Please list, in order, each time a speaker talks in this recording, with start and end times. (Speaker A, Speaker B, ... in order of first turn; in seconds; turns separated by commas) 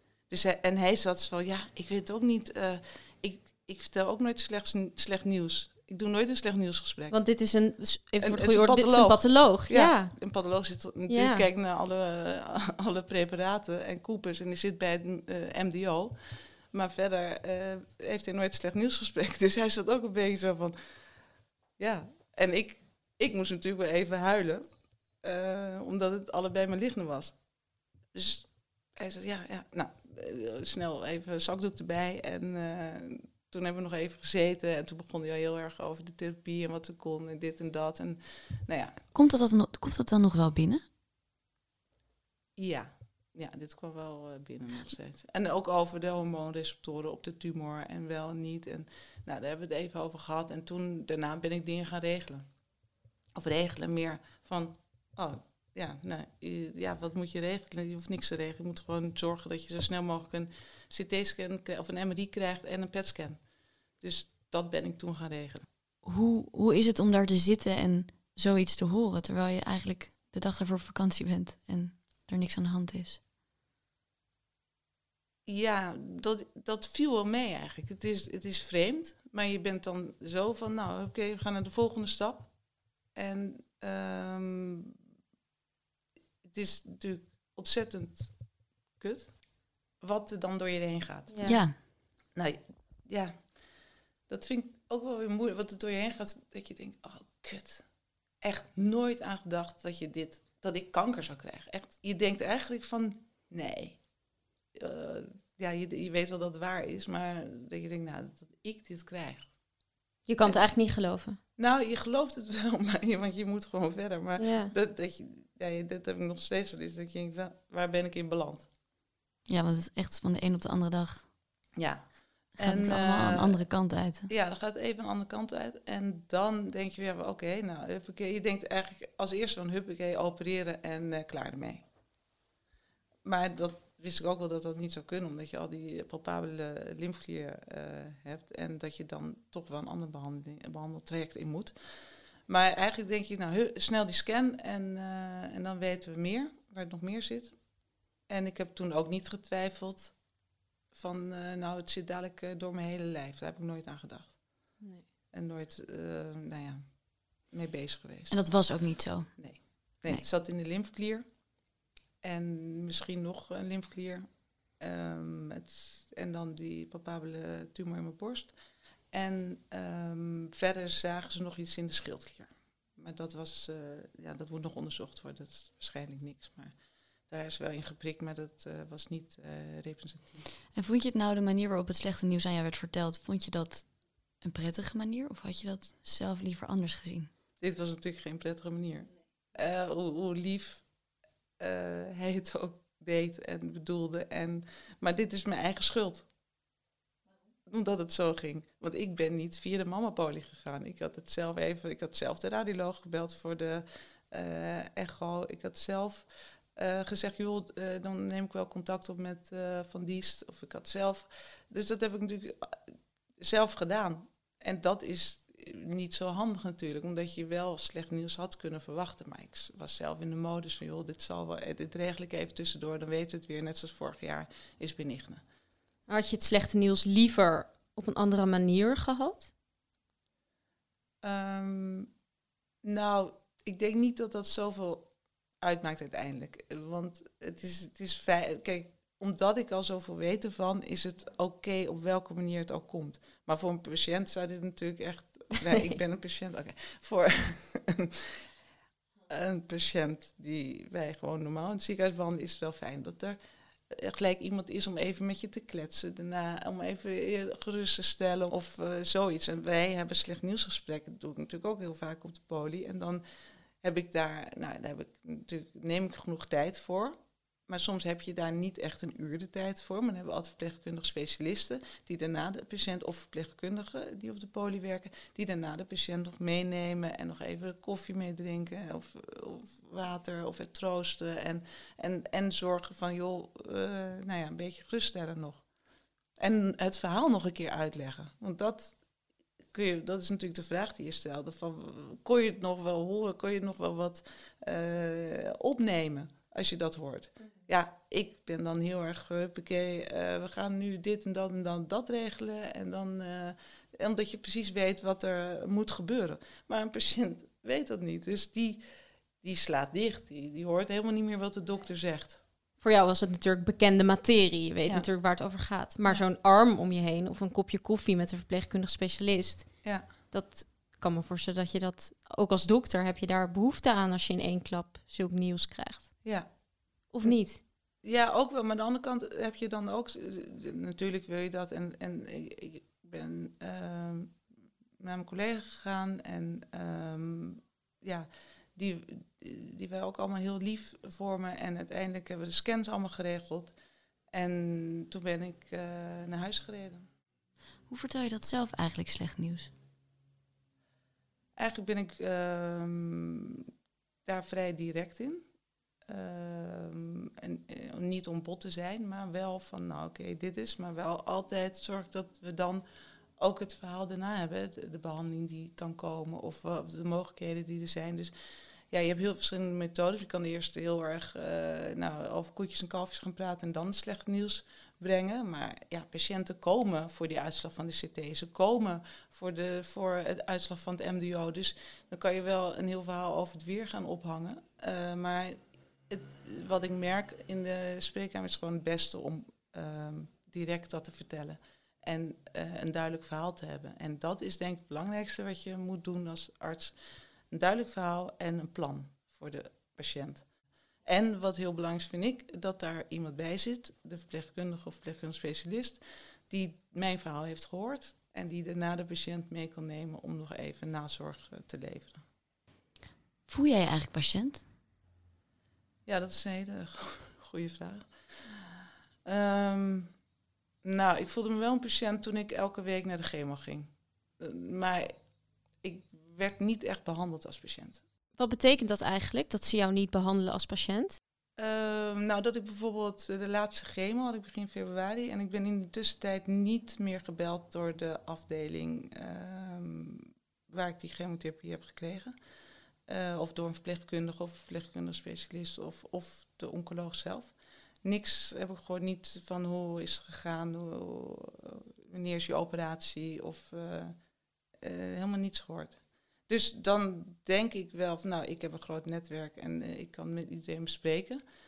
Speaker A: 0.3-7.2, Speaker B: 7.1-10.2, Speaker A: 8.2-20.8, Speaker B: 11.1-11.5, Speaker A: 21.8-24.7, Speaker A: 25.2-27.4, Speaker A: 28.1-39.0, Speaker C: 39.1-40.9, Speaker A: 42.6-52.5, Speaker A: 53.4-63.4, Speaker A: 64.0-65.7, Speaker C: 66.0-73.2, Speaker A: 75.5-82.5, Speaker A: 83.2-85.0, Speaker A: 86.4-88.3, Speaker A: 89.0-89.4, Speaker A: 90.0-91.4, Speaker B: 91.3-91.6, Speaker C: 91.4-91.8, Speaker A: 92.3-93.4, Speaker A: 94.3-97.8, Speaker A: 98.4-104.0, Speaker A: 104.8-109.5, Speaker B: 110.3-111.4, Speaker A: 111.6-118.7, Speaker B: 114.4-114.7, Speaker C: 119.5-121.3, Speaker A: 121.8-123.6, Speaker C: 122.6-124.3, Speaker A: 124.3-131.8, Speaker A: 133.2-147.6, Speaker A: 148.3-150.2, Speaker A: 150.9-154.4, Speaker A: 155.3-156.8, Speaker A: 157.5-158.4, Speaker C: 158.3-159.3, Speaker A: 159.4-161.3, Speaker A: 162.2-164.3, Speaker A: 164.8-168.5, Speaker A: 169.1-176.7, Speaker A: 177.3-180.4, Speaker C: 180.7-183.9, Speaker C: 184.4-187.3, Speaker A: 187.6-190.8, Speaker A: 191.6-196.3, Speaker A: 197.7-225.4, Speaker B: 226.1-229.5, Speaker A: 231.2-232.1, Speaker A: 232.8-235.1, Speaker A: 235.6-248.4, Speaker A: 249.3-253.4, Speaker A: 253.9-263.2, Speaker A: 263.8-267.2, Speaker A: 267.7-285.6, Speaker A: 286.4-289.0, Speaker A: 289.7-308.8, Speaker A: 309.4-312.4, Speaker B: 312.8-326.2, Speaker B: 327.1-327.6, Speaker A: 328.0-334.4, Speaker A: 335.0-343.7, Speaker A: 344.3-347.1, Speaker C: 347.9-349.7, Speaker A: 351.6-353.7, Speaker A: 354.3-355.4, Speaker A: 356.1-362.8, Speaker A: 363.4-368.3, Speaker A: 368.9-396.9, Speaker A: 397.5-400.4, Speaker A: 401.1-412.2, Speaker C: 413.5-414.6, Speaker A: 416.1-418.7, Speaker A: 419.3-420.1, Speaker A: 420.8-425.1, Speaker A: 425.8-428.0, Speaker B: 428.4-431.2, Speaker A: 431.6-442.4, Speaker A: 443.1-454.2, Speaker A: 454.8-461.4